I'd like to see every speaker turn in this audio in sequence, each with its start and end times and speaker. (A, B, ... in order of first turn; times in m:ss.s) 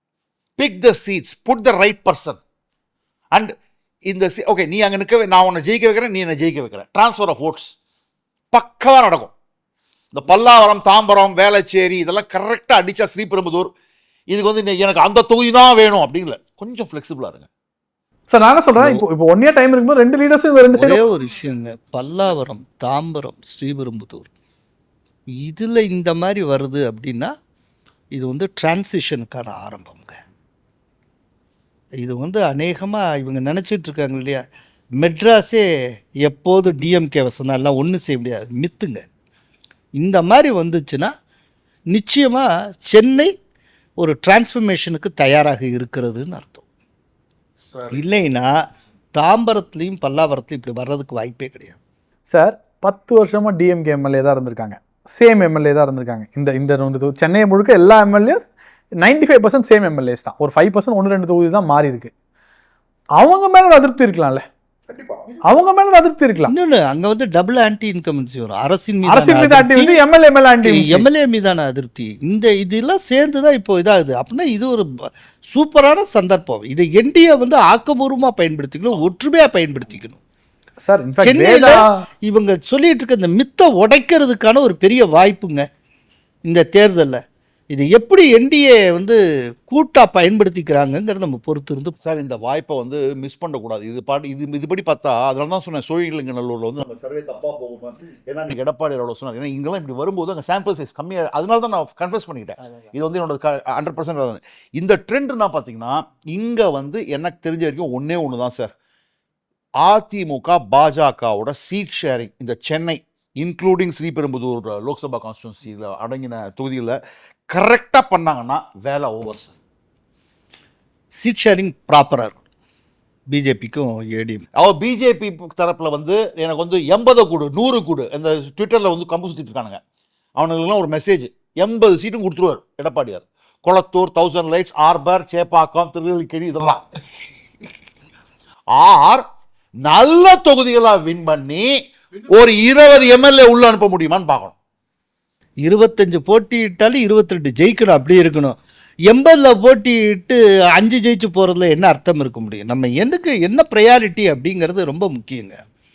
0:00.6-0:02.4 A
0:04.1-0:07.7 A
0:08.5-0:09.3 A
0:10.1-0:13.7 A
0:14.3-0:17.5 A
0:18.3-0:21.0 B
0:18.8-0:19.0 C
0:20.7-0:24.3 C
0:25.3-0:27.3 C
0:28.1-0:30.2 C
0:32.0-0:34.4 C
0:35.0-0:35.7 C
0:36.2-0:39.0 C
0:40.0-0:41.1 C
0:41.9-0:43.3 C
0:44.0-0:46.6 C
0:47.9-0:48.5 C
0:49.1-0:51.8 C
0:52.3-0:58.4 B
0:59.0-1:02.1 B
1:03.2-1:04.4 B
1:04.9-1:05.3 A
1:05.5-1:06.5 B
1:06.5-1:10.0 C
1:09.1-1:11.0 B
1:10.6-1:20.2 C
1:20.8-1:22.0 B
1:21.2-1:25.7 C
1:26.4-1:27.2 C
1:27.7-1:32.0 C
1:32.0-1:48.7 A
1:49.8-1:57.0 A
1:57.5-1:59.5 A
2:01.2-2:02.4 C
2:03.3-2:04.4 C
2:04.6-2:09.8 A
2:10.4-2:16.8 A
2:18.7-2:19.2 A
2:19.8-2:21.7 A
2:22.3-2:24.5 A
2:25.6-2:28.6 C
2:29.1-2:35.6 C